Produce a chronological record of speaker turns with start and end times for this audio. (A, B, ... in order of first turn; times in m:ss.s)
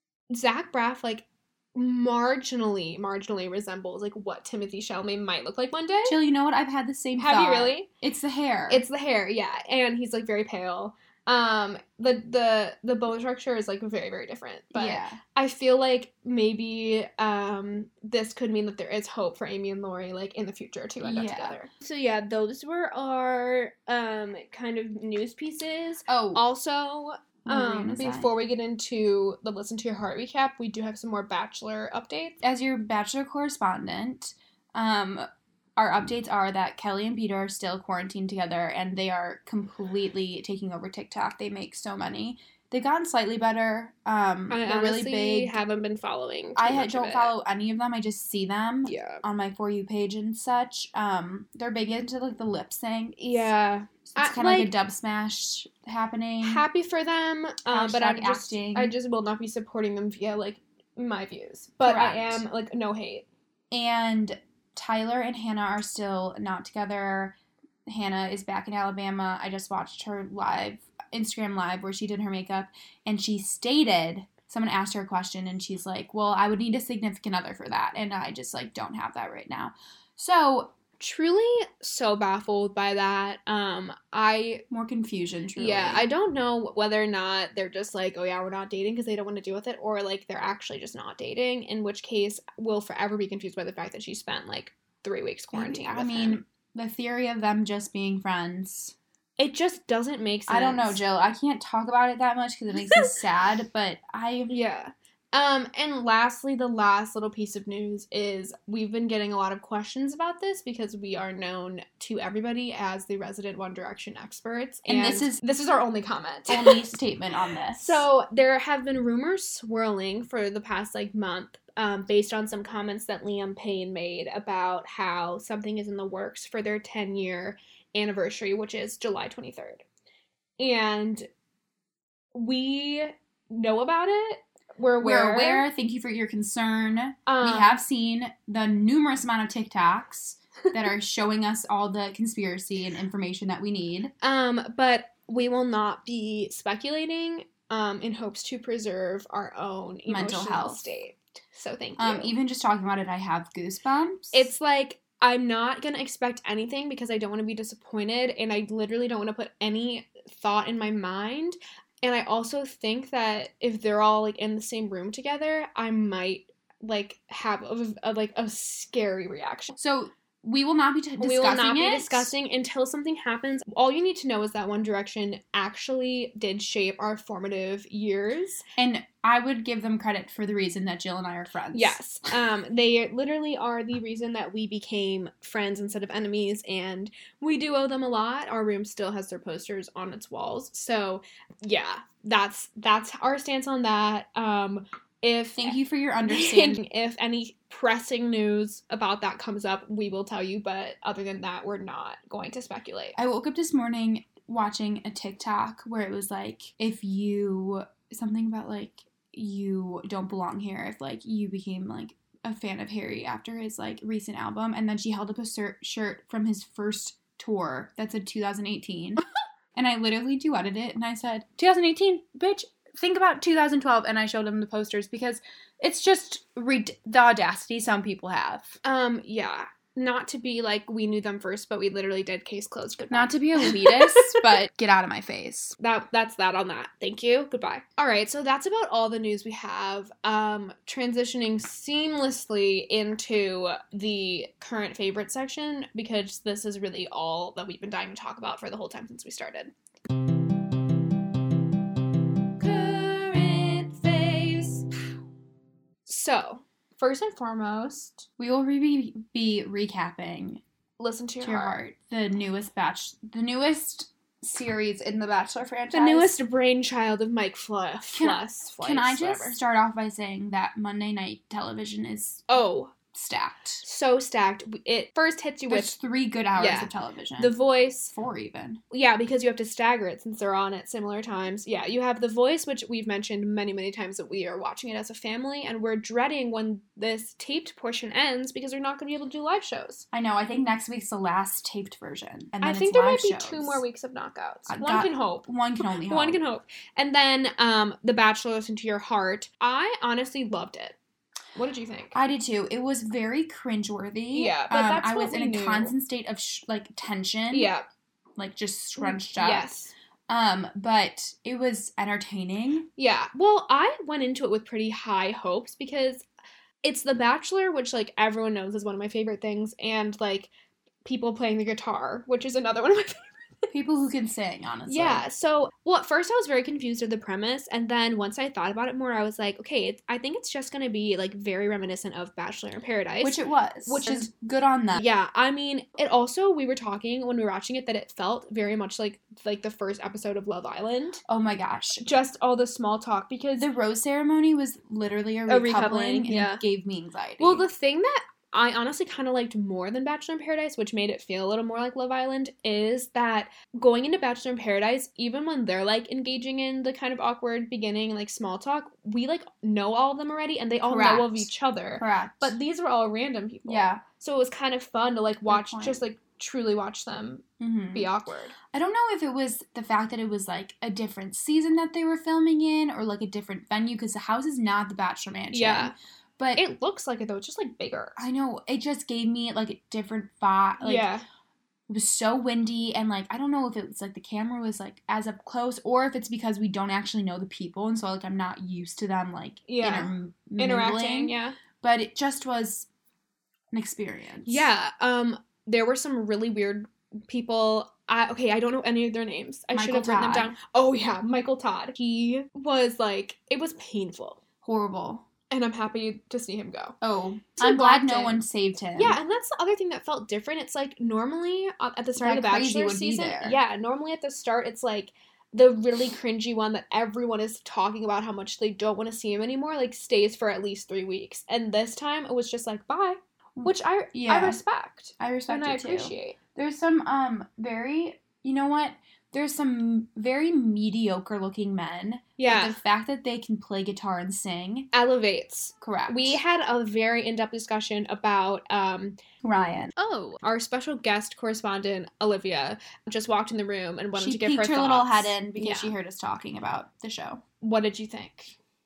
0:00.3-0:06.2 A
0:06.0-0:08.8 B
0:07.2-0:07.9 A
0:08.7-0:32.4 A
0:14.7-0:15.2 B
0:21.0-0:21.6 B
0:26.1-0:26.4 B
0:27.4-0:28.3 B
0:32.4-0:35.3 B
0:35.8-0:45.6 B
0:44.5-0:47.3 A
0:46.6-0:53.5 B
0:48.8-0:49.2 A
0:53.2-0:54.7 A
0:54.2-0:56.6 B
0:56.4-1:03.3 A
0:57.7-0:58.9 B
1:01.8-1:02.4 B
1:03.7-1:07.3 B
1:07.9-1:20.7 B
1:21.0-1:24.6 A
1:24.7-1:26.1 B
1:25.6-1:36.4 A
1:35.5-1:39.0 B
1:39.4-1:41.0 A
1:40.5-1:44.5 B
1:42.8-1:43.1 A
1:44.5-1:56.9 A
1:54.9-1:55.4 B
1:56.5-1:58.1 B
1:57.8-2:09.8 A
2:10.6-2:11.3 A
2:12.3-2:15.7 A
2:15.0-2:24.1 B
2:17.3-2:17.8 A
2:24.2-2:32.3 A
2:30.1-2:30.8 B
2:32.0-2:34.5 B
2:34.3-2:49.8 A
2:49.8-2:52.3 B
2:51.2-2:58.6 A
2:58.8-3:02.0 B
3:01.7-3:15.8 A
3:15.6-3:16.8 B
3:16.3-3:23.2 A
3:23.2-3:39.2 B
3:39.8-3:48.8 B
3:48.8-3:54.5 A
3:53.1-3:55.8 B
3:55.8-4:09.7 A
4:12.6-4:14.9 A
4:16.1-4:18.3 A
4:18.4-4:20.6 B
4:21.0-4:21.8 A
4:21.4-4:26.4 B
4:25.9-4:29.6 A
4:28.1-4:32.5 B
4:32.5-4:32.9 A
4:33.1-4:33.8 B
4:33.8-4:35.9 A
4:35.7-4:37.6 B
4:36.6-4:38.1 A
4:38.1-4:38.8 B
4:38.9-4:50.1 A
4:50.1-4:53.8 B
4:52.6-4:55.5 A
4:54.7-4:56.4 B
4:56.0-5:01.0 A
5:01.6-5:02.2 A
5:02.1-5:07.7 B
5:04.3-5:05.9 A
5:07.5-5:07.9 A
5:08.4-5:09.8 B
5:09.0-5:09.9 A
5:10.3-5:12.9 B
5:13.0-5:16.3 A
5:16.8-5:20.5 A
5:21.0-5:23.7 A
5:23.7-5:25.2 B
5:24.9-5:34.3 A
5:33.2-5:35.0 B
5:35.0-5:41.2 A
5:41.3-5:42.0 B
5:42.0-5:43.7 A
5:43.6-5:47.6 B
5:45.5-5:46.6 A
5:47.4-6:08.6 A
6:00.8-6:02.6 B
6:03.6-6:04.0 B
6:05.5-6:06.0 B
6:07.6-6:08.1 B
6:08.7-6:16.7 B
6:15.5-6:15.9 A
6:16.6-6:18.2 A
6:18.2-6:21.1 B
6:20.8-6:21.2 A
6:21.9-6:32.9 B
6:29.7-6:31.6 A
6:33.7-6:34.7 B
6:34.5-6:44.4 A
6:39.7-6:40.5 B
6:44.6-6:45.3 B
6:45.5-6:47.0 A
6:47.0-6:49.2 B
6:47.6-6:48.4 A
6:49.0-7:06.4 A
6:52.2-6:53.6 B
7:03.6-7:04.6 B
7:05.2-7:14.9 B
7:12.4-7:12.8 A
7:14.9-7:19.2 A
7:15.8-7:16.4 B
7:19.4-7:19.9 B
7:20.0-7:25.9 A
7:24.2-7:27.4 B
7:27.6-7:28.6 A